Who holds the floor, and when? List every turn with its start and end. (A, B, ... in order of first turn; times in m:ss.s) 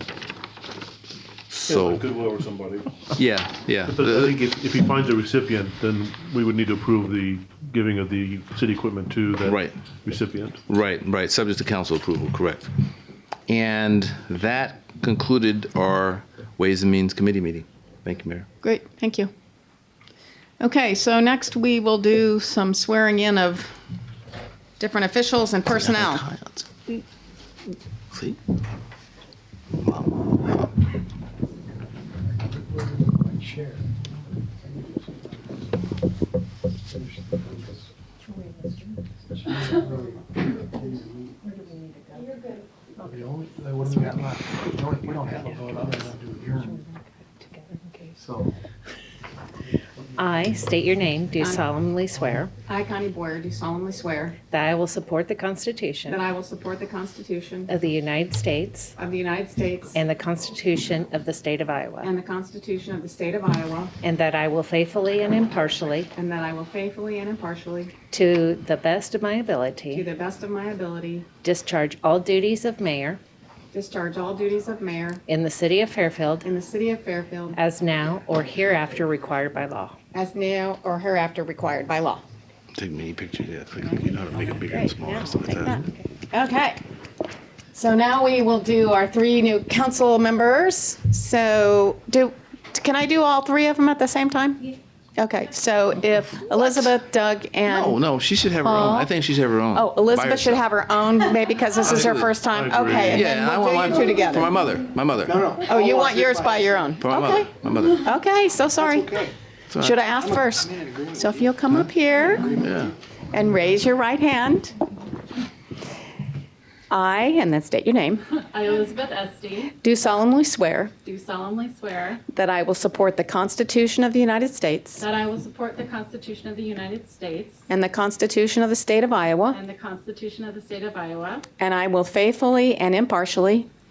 0:01.5-0:02.0 A
0:01.6-0:03.1 B
0:03.2-0:04.4 A
0:03.9-0:10.6 B
0:09.4-0:09.8 A
0:10.7-0:12.7 A
0:13.5-0:18.5 A
0:18.6-0:19.3 C
0:20.6-0:23.7 C
0:24.8-0:26.2 C
0:25.7-0:26.7 A
0:28.1-0:28.4 A
0:29.8-0:30.7 A
0:32.7-0:34.0 D
0:34.6-0:35.3 D
0:36.9-0:37.9 D
0:38.3-0:40.0 E
0:39.5-0:41.6 D
0:41.4-0:42.4 E
0:43.0-0:43.3 E
0:43.1-0:46.8 D
0:43.9-0:44.2 E
0:45.2-0:48.2 E
0:48.2-0:48.5 D
0:50.2-0:52.5 E
0:51.4-0:51.6 C
0:52.6-0:54.4 C
0:54.5-0:56.2 E
0:56.1-0:57.7 C
0:57.7-0:58.9 E
0:59.0-1:00.0 C
0:59.9-1:02.1 E
1:02.0-1:03.9 C
1:04.0-1:06.1 E
1:06.2-1:07.9 C
1:08.1-1:10.1 E
1:09.9-1:11.3 C
1:11.4-1:13.2 E
1:13.7-1:15.2 C
1:15.3-1:16.5 E
1:16.4-1:17.6 C
1:17.5-1:20.0 E
1:20.1-1:22.2 C
1:22.7-1:25.8 A
1:23.8-1:26.8 C
1:27.7-1:38.0 C
1:37.6-1:40.7 A
1:38.6-1:39.1 C
1:39.7-1:44.6 C
1:41.8-1:42.4 A
1:41.9-1:43.2 B
1:43.0-1:45.7 A
1:45.6-1:52.7 C
1:47.0-1:48.1 A
1:49.7-1:50.0 A
1:51.7-1:52.9 A
1:53.3-1:54.8 C
1:56.9-1:58.3 C
1:58.5-1:59.8 F
1:59.8-2:00.9 C
2:01.0-2:02.2 F
2:02.3-2:05.1 C
2:05.0-2:07.6 F
2:07.7-2:09.6 C
2:09.5-2:11.5 F
2:11.6-2:13.7 C